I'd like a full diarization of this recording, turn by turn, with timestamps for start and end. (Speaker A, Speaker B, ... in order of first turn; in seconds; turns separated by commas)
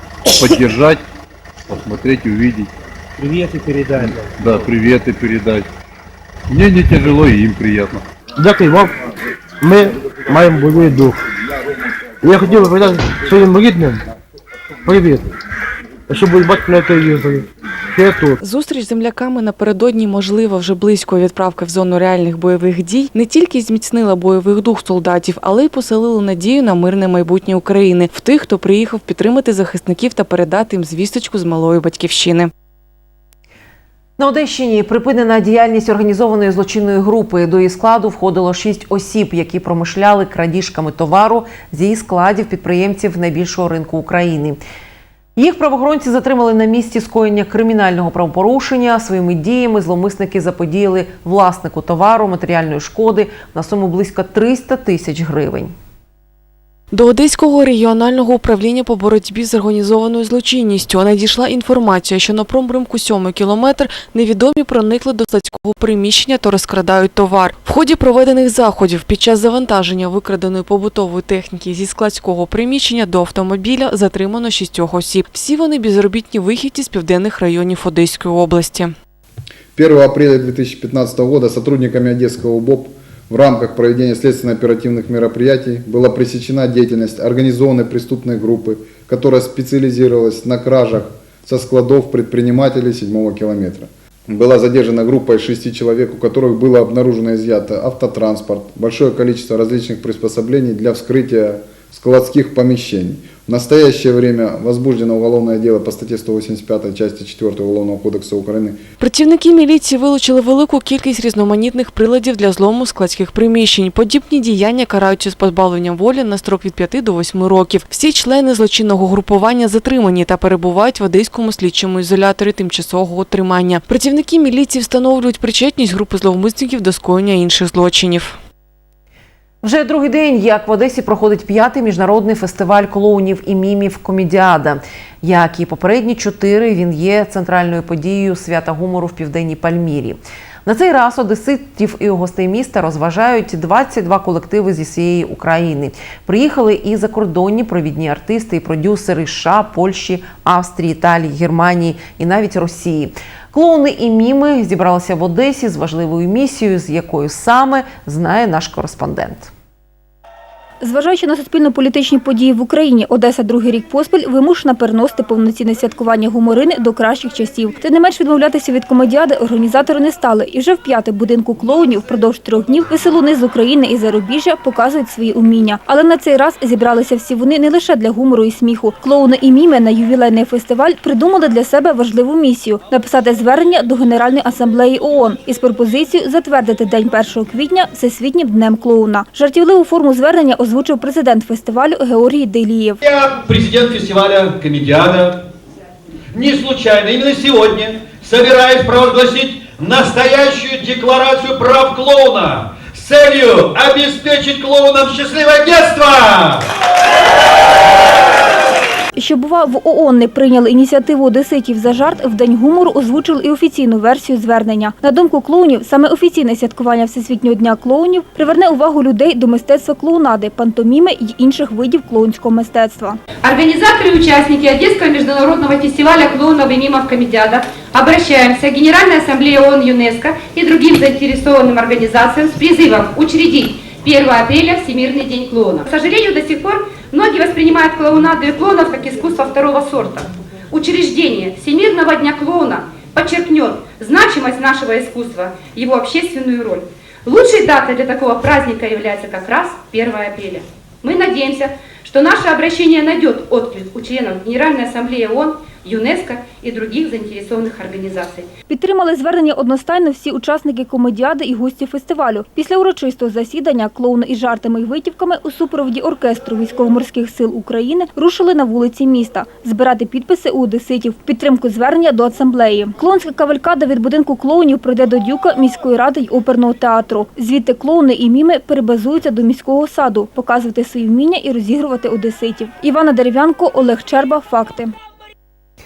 Speaker A: 0.3-1.0, Speaker A: 1.7-2.7, Speaker B: 3.2-4.3, Speaker A: 4.0-5.7, Speaker A: 6.5-8.0, Speaker B: 8.4-8.9, Speaker B: 9.6-11.2, Speaker B: 12.2-14.0, Speaker B: 14.8-15.3, Speaker B: 16.1-18.4, Speaker C: 18.4-32.5, Speaker D: 34.2-44.6, Speaker D: 45.4-55.7, Speaker C: 56.9-78.9, Speaker E: 79.7-108.8, Speaker C: 109.0-128.4, Speaker D: 129.6-159.5, Speaker F: 160.8-193.0, Speaker G: 193.0-195.4, Speaker G: 196.3-206.7, Speaker F: 209.2-223.2, Speaker H: 223.4-258.5, Speaker F: 258.7-284.9